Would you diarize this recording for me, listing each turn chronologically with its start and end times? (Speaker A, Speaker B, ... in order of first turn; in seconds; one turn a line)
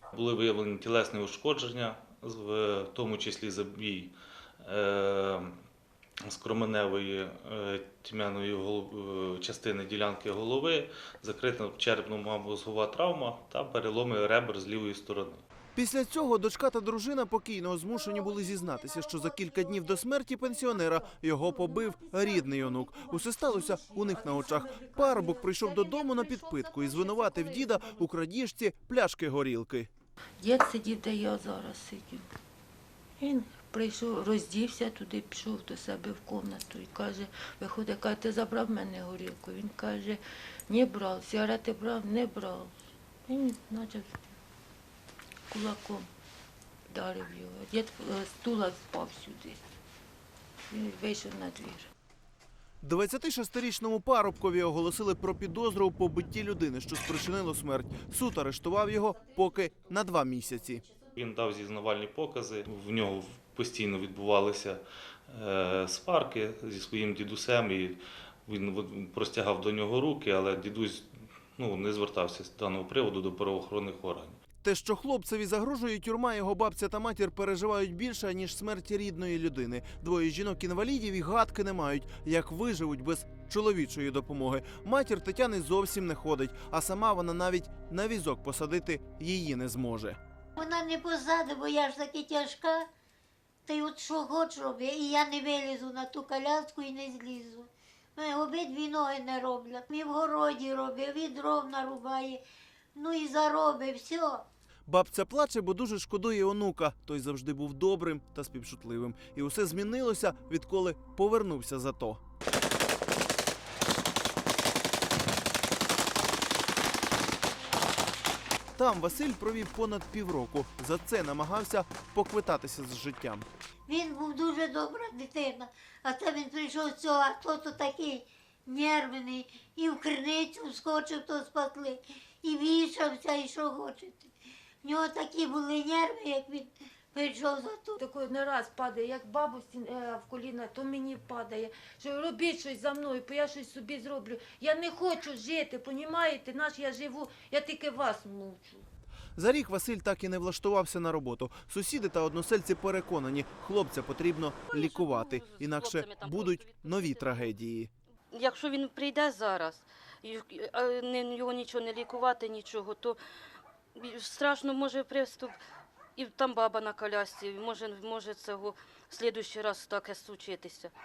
Speaker A: 0.1-5.6
Speaker A: 6.2-15.4
Speaker B: 15.8-29.9
Speaker C: 23.0-26.3
Speaker C: 26.8-27.5
Speaker C: 30.4-32.2
Speaker C: 33.2-44.2
Speaker C: 45.5-46.1
Speaker C: 46.9-49.6
Speaker C: 50.7-51.9
Speaker B: 52.8-60.8
Speaker A: 61.1-74.4
Speaker B: 74.6-90.2
Speaker D: 90.6-92.8
Speaker D: 93.7-102.4
Speaker D: 102.9-104.4
Speaker B: 104.9-112.2
Speaker B: 118.8-123.5
Speaker D: 123.9-134.3
Speaker D: 134.8-138.0
Speaker C: 138.0-148.8
Speaker B: 149.3-157.9
Speaker E: 154.7-157.5
Speaker E: 158.3-163.2
Speaker E: 163.9-165.6
Speaker E: 166.2-170.9